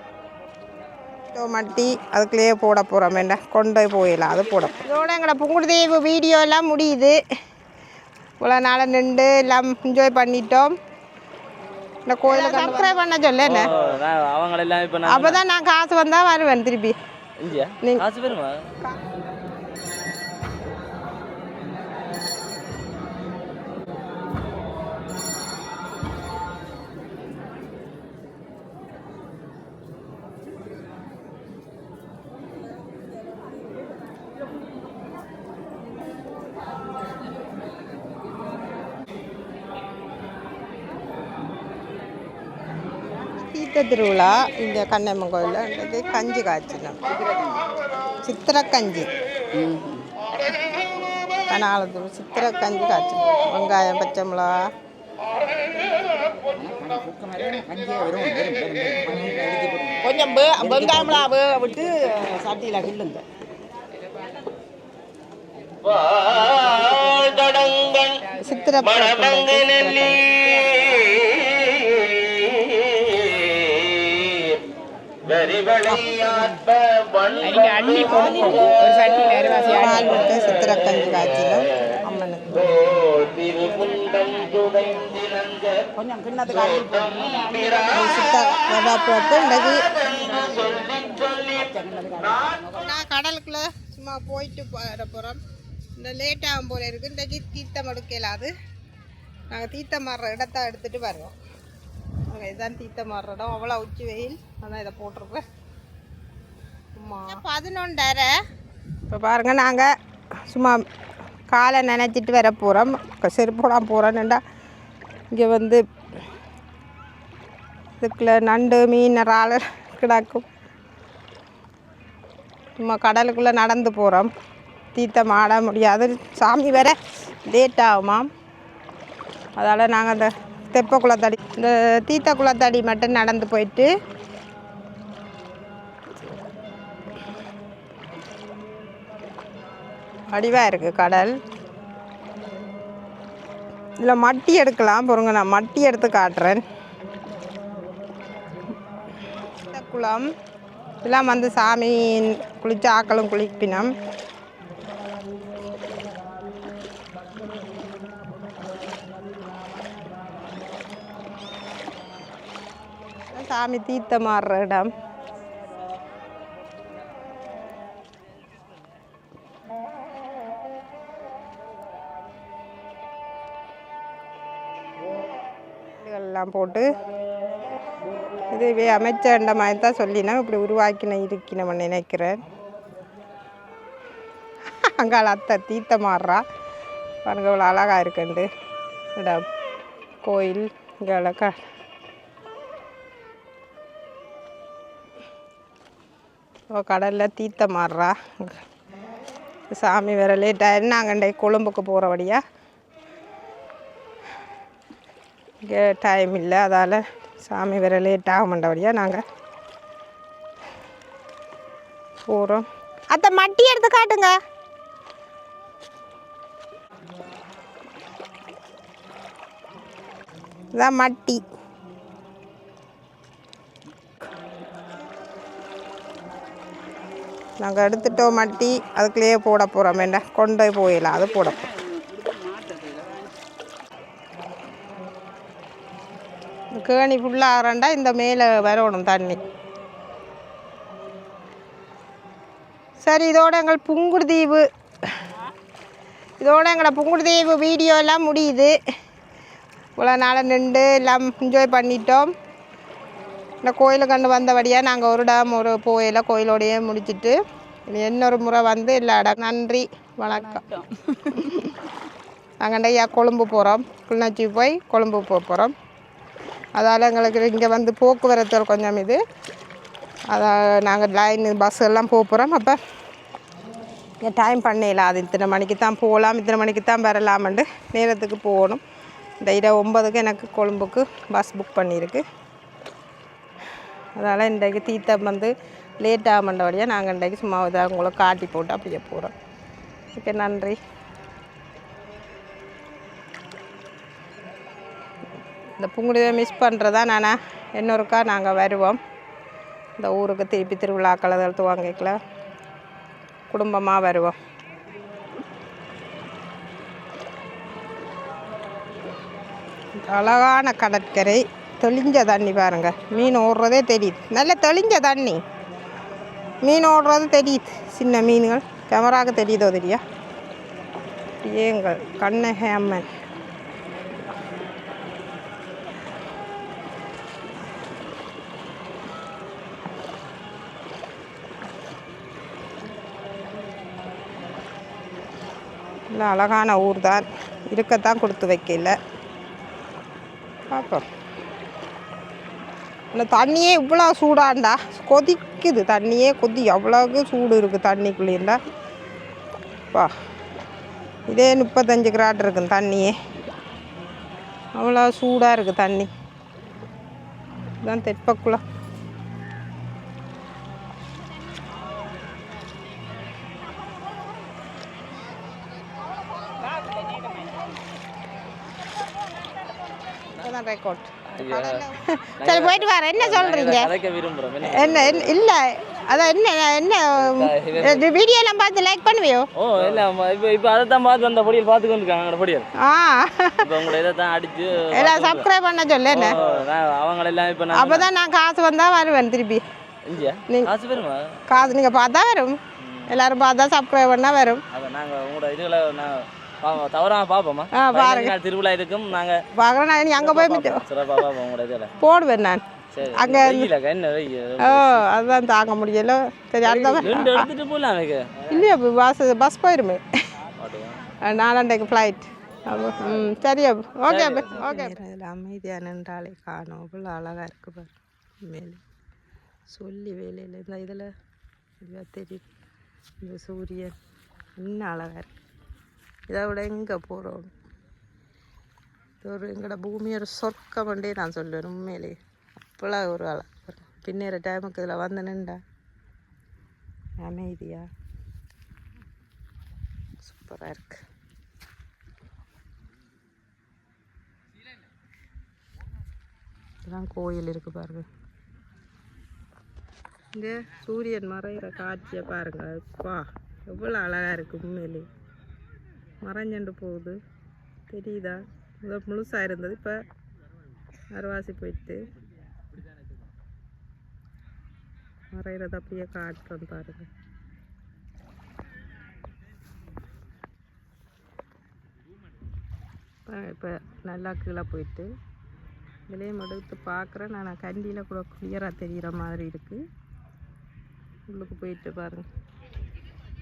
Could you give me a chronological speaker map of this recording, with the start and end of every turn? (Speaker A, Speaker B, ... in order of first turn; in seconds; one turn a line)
Speaker A: 1.3-7.2
Speaker A: 8.4-10.7
Speaker A: 12.1-13.7
Speaker B: 12.3-12.9
Speaker C: 13.4-15.4
Speaker A: 15.1-17.0
Speaker C: 17.4-18.6
Speaker A: 43.5-47.0
Speaker A: 48.2-49.1
Speaker B: 49.6-50.1
Speaker A: 51.5-54.7
Speaker B: 56.6-63.2
Speaker B: 66.4-68.0
Speaker A: 68.4-70.3
Speaker B: 75.5-76.6
Speaker B: 77.3-80.0
Speaker A: 79.7-82.7
Speaker B: 83.4-85.1
Speaker B: 85.8-87.7
Speaker A: 87.8-90.1
Speaker B: 90.5-92.6
Speaker A: 92.7-95.4
Speaker A: 96.0-98.5
Speaker A: 99.5-101.4
Speaker A: 102.3-105.4
Speaker A: 107.0-108.3
Speaker A: 109.1-109.9
Speaker A: 110.5-110.8
Speaker A: 111.5-114.4
Speaker A: 115.3-115.8
Speaker A: 118.0-120.5
Speaker A: 122.8-124.3
Speaker A: 124.9-127.0
Speaker A: 127.5-128.3
Speaker A: 129.6-133.9
Speaker A: 140.3-141.3
Speaker A: 144.0-146.6
Speaker A: 149.7-150.3
Speaker A: 151.0-153.9
Speaker A: 163.3-164.9
Speaker A: 176.0-176.9
Speaker A: 178.5-182.4
Speaker A: 184.9-186.4
Speaker A: 187.3-188.5
Speaker A: 189.2-189.4
Speaker A: 190.2-191.6
Speaker A: 196.7-198.6
Speaker A: 199.7-202.4
Speaker A: 205.6-209.2
Speaker A: 212.3-214.3
Speaker A: 220.7-221.4
Speaker A: 227.6-231.6
Speaker B: 231.9-233.2
Speaker A: 236.8-239.4
Speaker A: 243.0-244.7
Speaker A: 246.4-248.7
Speaker A: 250.0-252.3
Speaker A: 253.6-257.4
Speaker A: 257.9-260.8
Speaker A: 262.6-265.7
Speaker A: 266.8-269.2
Speaker A: 270.3-272.8
Speaker A: 274.2-278.8
Speaker A: 279.4-282.2
Speaker A: 284.2-289.3
Speaker A: 290.1-290.8
Speaker A: 295.8-299.0
Speaker A: 300.0-302.2
Speaker A: 303.5-304.4
Speaker A: 310.0-315.4
Speaker A: 316.6-320.0
Speaker A: 321.4-323.1
Speaker A: 336.1-339.0
Speaker A: 340.7-341.1
Speaker A: 343.1-348.6
Speaker A: 351.3-353.1
Speaker A: 354.8-356.1
Speaker A: 357.8-358.6
Speaker A: 370.4-373.9
Speaker C: 371.3-371.8
Speaker C: 372.4-375.4
Speaker A: 374.6-379.5
Speaker C: 377.1-378.1
Speaker C: 379.6-382.7
Speaker A: 382.8-383.7
Speaker C: 383.6-385.5
Speaker A: 384.9-386.4
Speaker C: 386.1-388.1
Speaker A: 387.7-389.6
Speaker C: 390.1-391.4
Speaker A: 391.5-394.6
Speaker C: 392.8-393.1
Speaker C: 394.7-399.4
Speaker A: 397.7-398.4
Speaker A: 399.5-400.8
Speaker C: 400.2-401.9
Speaker A: 402.0-403.7
Speaker C: 402.9-405.1
Speaker A: 404.6-407.5
Speaker C: 406.6-408.5
Speaker A: 408.5-410.0
Speaker C: 410.6-411.0
Speaker A: 411.2-418.8
Speaker C: 414.1-415.0
Speaker A: 419.7-421.1
Speaker A: 421.8-422.4
Speaker A: 423.2-424.0
Speaker A: 424.6-425.3
Speaker A: 426.3-427.5
Speaker A: 429.2-435.6
Speaker A: 437.2-437.9
Speaker A: 440.2-441.0
Speaker A: 446.9-448.1
Speaker A: 450.4-455.1
Speaker A: 456.2-457.2
Speaker A: 457.9-460.0
Speaker A: 461.1-462.0
Speaker A: 465.3-467.1
Speaker A: 473.3-475.1
Speaker A: 476.1-479.8
Speaker A: 481.3-482.3